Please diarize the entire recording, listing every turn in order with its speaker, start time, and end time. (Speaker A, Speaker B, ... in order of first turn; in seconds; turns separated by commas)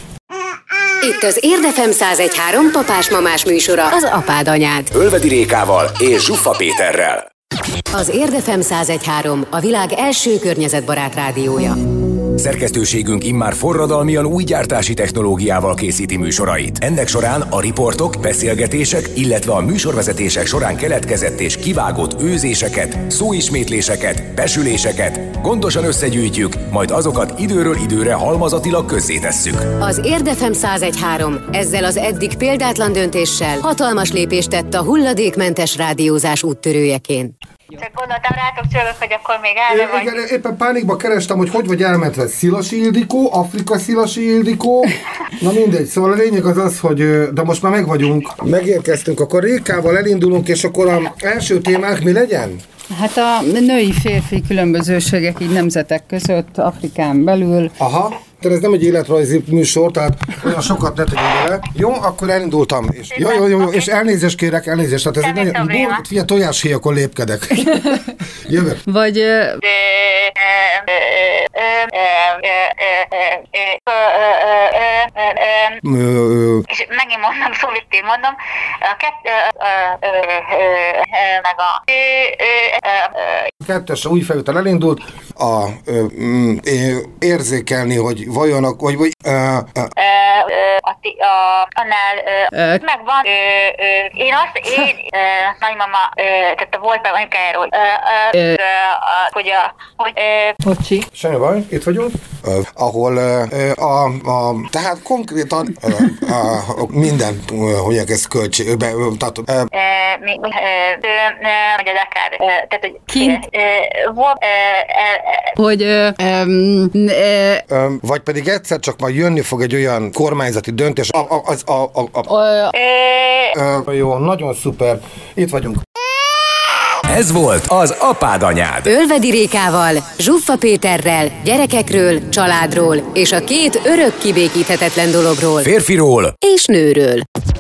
Speaker A: 1.0-4.9, Speaker B: 4.9-7.3, Speaker A: 7.9-11.8, Speaker B: 12.3-29.7, Speaker A: 29.8-37.3, Speaker C: 37.7-40.2, Speaker D: 39.7-52.6, Speaker E: 52.9-57.8, Speaker D: 57.8-68.8, Speaker C: 63.1-63.9, Speaker C: 65.2-66.0, Speaker E: 67.7-68.0, Speaker E: 68.9-69.6, Speaker C: 69.6-75.8, Speaker D: 75.8-76.7, Speaker C: 76.7-83.5, Speaker D: 83.6-89.9, Speaker C: 90.0-100.6, Speaker E: 92.5-92.8, Speaker E: 100.6-101.1, Speaker D: 101.1-109.7, Speaker C: 109.7-115.6, Speaker E: 113.1-113.4, Speaker E: 115.6-117.6, Speaker D: 117.7-122.3, Speaker E: 122.3-122.7, Speaker C: 122.8-123.6, Speaker D: 123.5-125.8, Speaker B: 127.1-128.9, Speaker A: 128.9-135.7, Speaker B: 135.6-136.4, Speaker A: 136.4-137.2